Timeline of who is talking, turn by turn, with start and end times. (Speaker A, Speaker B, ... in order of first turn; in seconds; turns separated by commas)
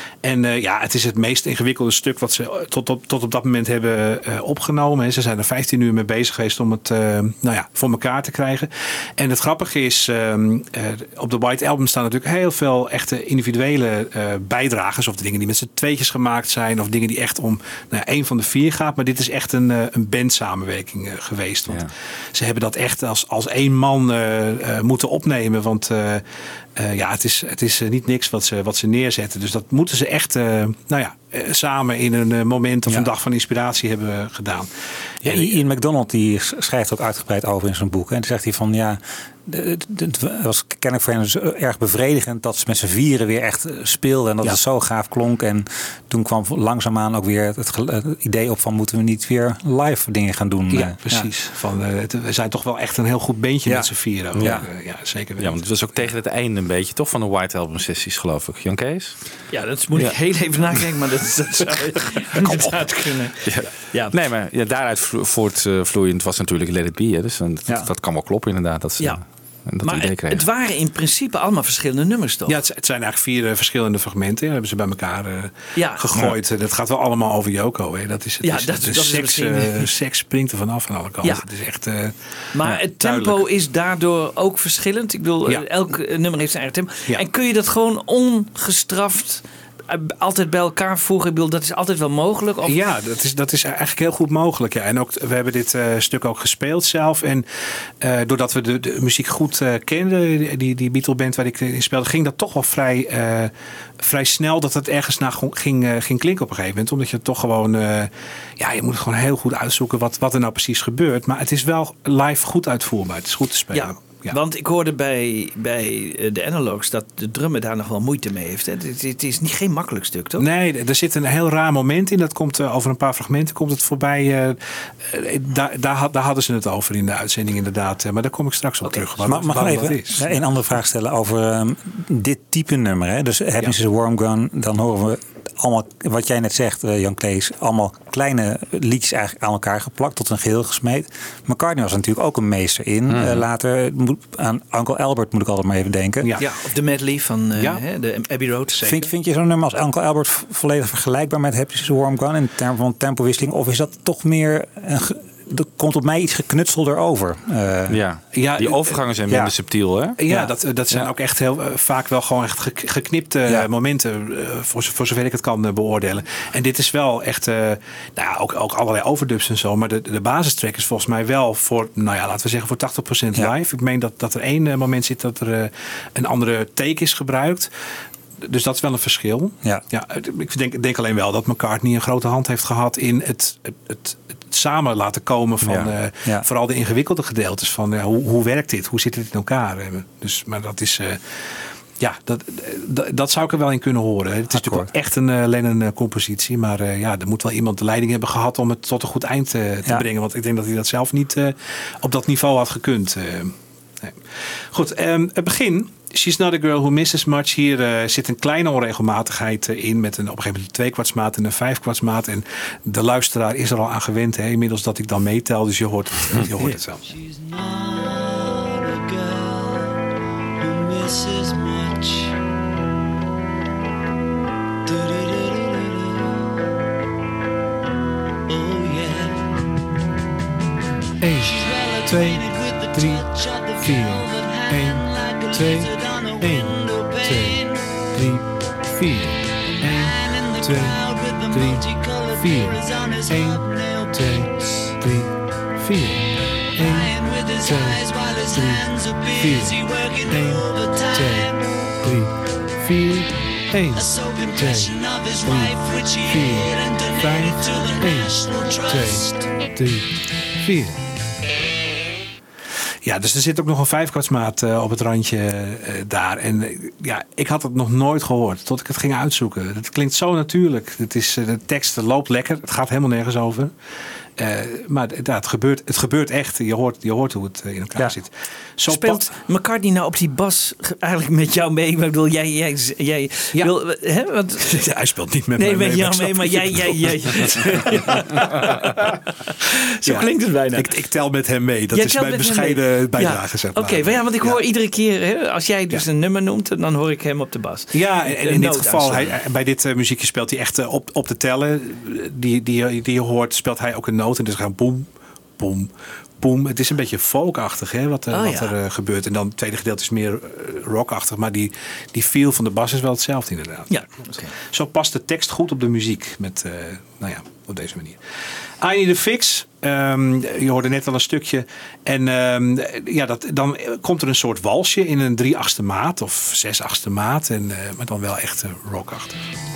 Speaker A: 0.2-26.2, Speaker A: 26.8-34.7, Speaker A: 35.2-35.6, Speaker B: 35.2-51.3, Speaker A: 50.7-56.1, Speaker C: 54.3-54.6, Speaker B: 54.4-54.7, Speaker C: 55.4-59.2, Speaker D: 59.5-64.2, Speaker C: 63.5-70.5, Speaker D: 69.8-72.6, Speaker A: 72.5-83.4, Speaker D: 75.8-76.0, Speaker D: 78.4-79.9, Speaker D: 82.5-92.8, Speaker A: 92.7-97.5, Speaker A: 98.0-114.4, Speaker D: 113.7-120.5, Speaker A: 120.4-130.3, Speaker B: 129.2-146.4, Speaker C: 143.1-143.4, Speaker A: 146.2-146.5, Speaker D: 146.4-148.8, Speaker A: 147.6-147.8, Speaker A: 148.7-149.0, Speaker B: 148.8-158.0, Speaker C: 157.9-160.2, Speaker A: 158.3-159.5, Speaker A: 160.2-177.7, Speaker A: 178.4-191.2, Speaker B: 185.6-186.5, Speaker A: 192.0-217.1, Speaker B: 194.5-194.9, Speaker E: 217.1-220.0, Speaker E: 220.6-222.3, Speaker E: 224.9-226.7, Speaker E: 228.5-229.6, Speaker F: 231.2-233.3, Speaker E: 231.4-238.0, Speaker F: 233.8-237.6, Speaker F: 238.1-254.9, Speaker E: 239.8-244.9, Speaker E: 246.8-251.9, Speaker E: 253.9-259.7, Speaker F: 255.4-260.1, Speaker F: 260.6-261.0, Speaker A: 263.0-273.7, Speaker A: 274.4-279.3, Speaker D: 278.9-284.8, Speaker A: 284.6-288.7, Speaker D: 285.6-290.9, Speaker A: 290.0-294.6, Speaker D: 291.9-299.4, Speaker A: 297.9-314.0, Speaker D: 308.3-308.7, Speaker D: 313.9-314.6, Speaker A: 314.6-318.2, Speaker A: 318.8-329.4